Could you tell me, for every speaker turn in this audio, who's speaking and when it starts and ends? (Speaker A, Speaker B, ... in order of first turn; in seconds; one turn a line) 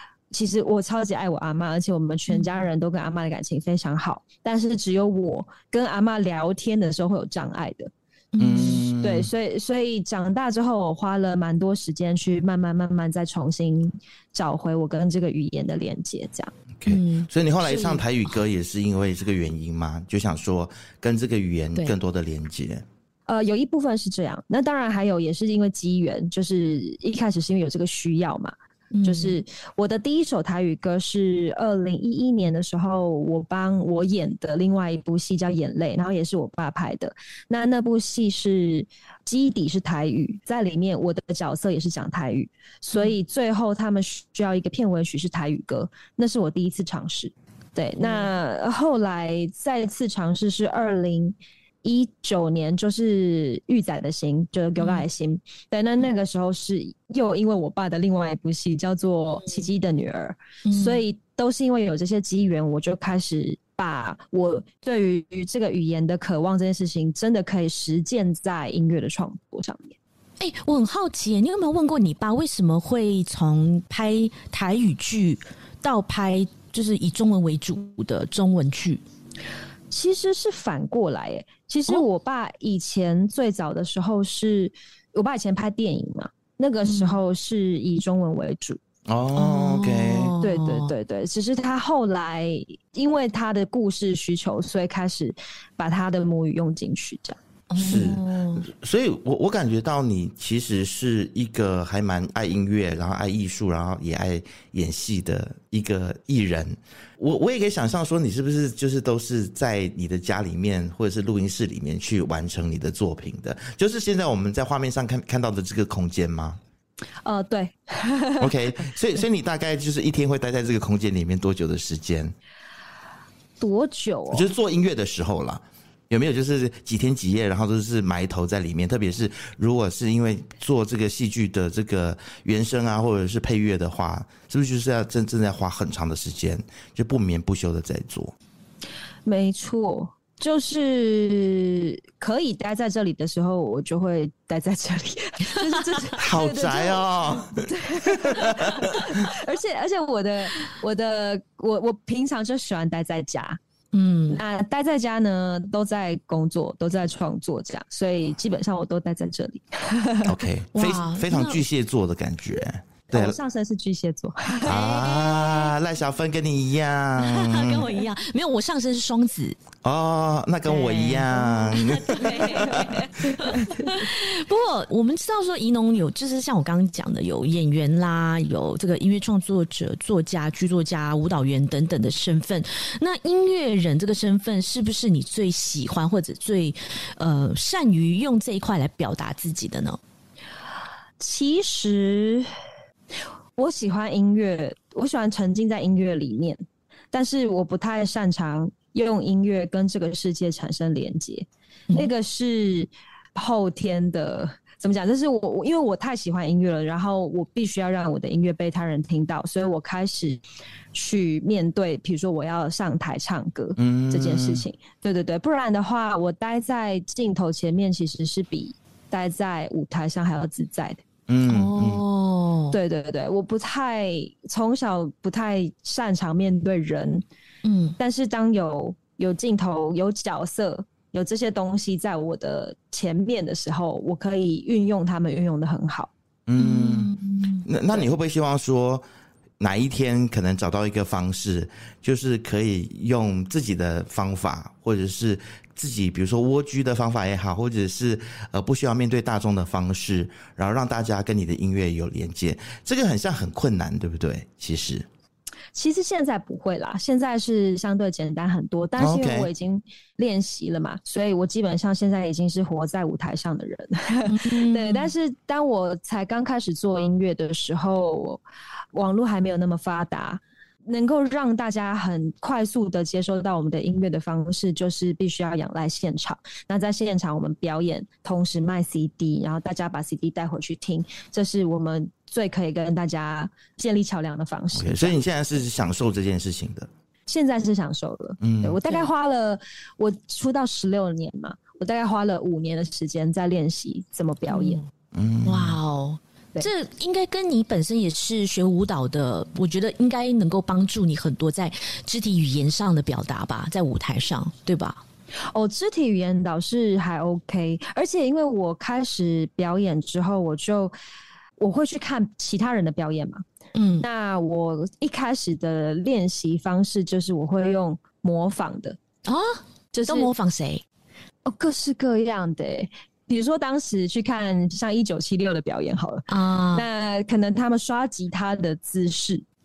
Speaker A: 0.3-7.9
Speaker B: 8.3-8.8
Speaker C: 8.4-9.3
Speaker A: 8.5-16.5
Speaker C: 16.8-22.8
Speaker B: 16.9-18.0
Speaker A: 23.3-28.5
Speaker B: 28.9-29.4
Speaker A: 29.0-69.9
Speaker B: 48.0-48.3
Speaker B: 54.8-55.0
Speaker B: 60.6-61.0
Speaker B: 70.4-79.0
Speaker A: 79.9-88.8
Speaker B: 86.8-87.2
Speaker C: 89.1-90.3
Speaker B: 89.3-90.9
Speaker A: 90.4-97.4
Speaker B: 97.7-98.6
Speaker C: 97.8-116.6
Speaker A: 117.2-118.6
Speaker C: 118.4-122.3
Speaker A: 123.6-124.5
Speaker C: 124.3-138.3
Speaker A: 139.2-153.6
Speaker C: 146.2-149.2
Speaker B: 153.9-154.4
Speaker A: 154.3-160.3
Speaker C: 160.2-163.4
Speaker B: 160.7-161.6
Speaker A: 163.1-164.7
Speaker B: 164.6-165.8
Speaker C: 164.7-167.9
Speaker B: 167.2-169.6
Speaker C: 169.8-173.0
Speaker B: 170.6-190.0
Speaker A: 173.4-173.9
Speaker A: 191.2-192.5
Speaker A: 193.6-210.4
Speaker A: 210.9-221.0
Speaker C: 213.8-214.6
Speaker C: 221.3-222.0
Speaker B: 221.4-222.8
Speaker A: 222.7-227.2
Speaker B: 227.6-228.0
Speaker A: 228.0-236.1
Speaker C: 236.5-239.0
Speaker B: 236.6-237.6
Speaker C: 239.6-255.1
Speaker A: 255.7-268.4
Speaker C: 259.0-259.5
Speaker B: 264.2-265.1
Speaker A: 268.9-285.2
Speaker C: 284.7-286.9
Speaker A: 287.3-294.8
Speaker C: 288.4-288.8
Speaker B: 294.5-294.8
Speaker C: 295.1-295.8
Speaker B: 295.4-305.0
Speaker A: 305.5-310.9
Speaker A: 311.6-313.4
Speaker B: 313.7-314.1
Speaker A: 314.0-319.0
Speaker B: 319.2-320.8
Speaker A: 320.0-320.3
Speaker A: 321.4-329.4
Speaker B: 326.3-326.8